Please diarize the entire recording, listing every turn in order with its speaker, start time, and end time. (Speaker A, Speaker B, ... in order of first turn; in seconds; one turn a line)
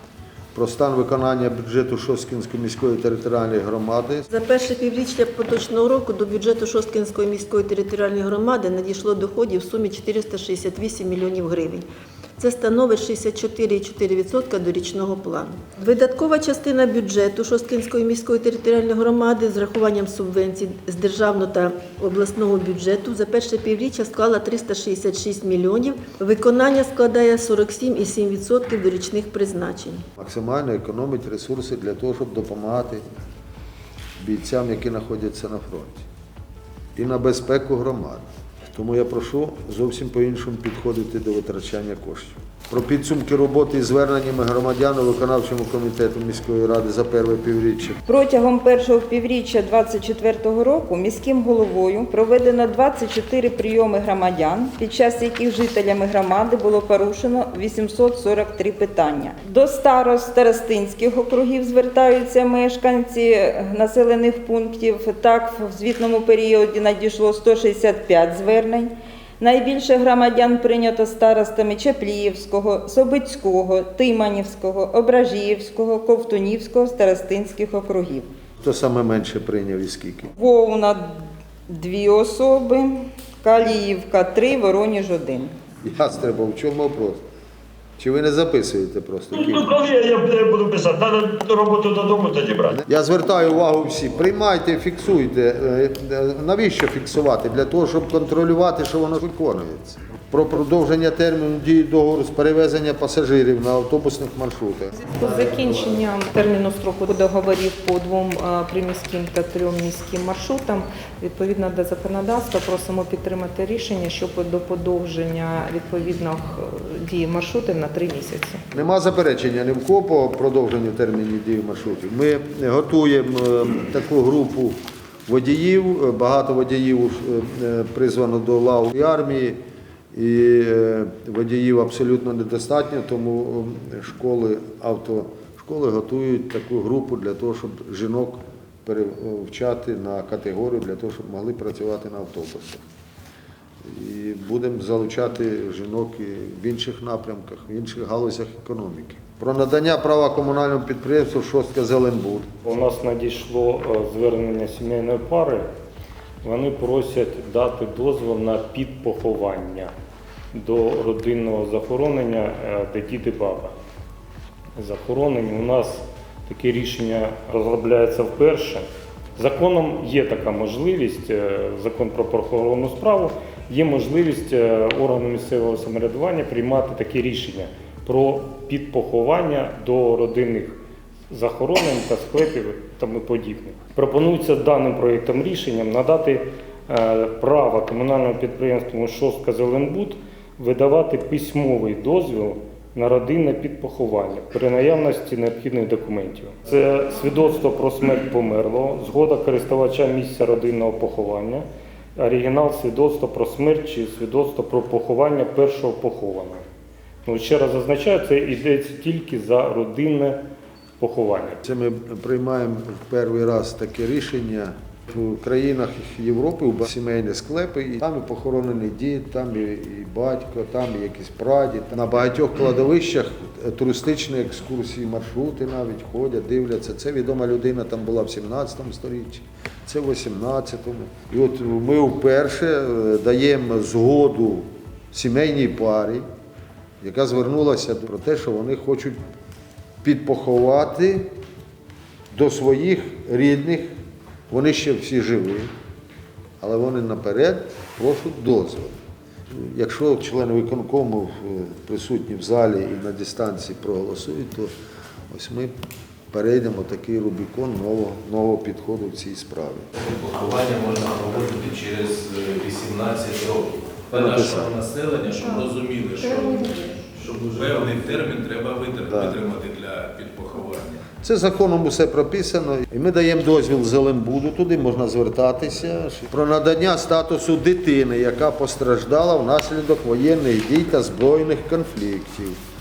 Speaker A: 0.5-4.3
Speaker B: 4.3-11.8
Speaker B: 12.4-30.0
Speaker A: 30.2-33.0
Speaker A: 34.2-36.0
Speaker A: 37.0-48.0
Speaker C: 48.0-78.3
Speaker A: 78.6-80.3
Speaker C: 80.4-85.5
Speaker A: 85.8-87.2
Speaker A: 88.0-89.7
Speaker D: 89.3-92.8
Speaker A: 92.7-105.1
Speaker E: 105.0-118.6
Speaker A: 118.7-129.6
Speaker A: 130.1-142.8
Speaker A: 143.8-152.5
Speaker F: 152.6-155.7
Speaker F: 156.4-159.9
Speaker F: 160.5-163.8
Speaker F: 164.8-168.8
Speaker F: 169.4-180.8
Speaker F: 181.3-201.7
Speaker F: 202.2-206.6
Speaker F: 207.2-210.4
Speaker F: 211.0-211.6
Speaker A: 211.7-236.2
Speaker A: 237.0-239.2
Speaker A: 240.0-241.3
Speaker A: 242.3-243.9
Speaker A: 244.5-245.7
Speaker A: 246.6-249.0
Speaker A: 249.5-254.7
Speaker A: 255.3-255.7
Speaker A: 256.3-259.9
Speaker G: 260.0-271.0
Speaker A: 264.1-264.7
Speaker A: 269.1-269.4
Speaker A: 271.2-282.6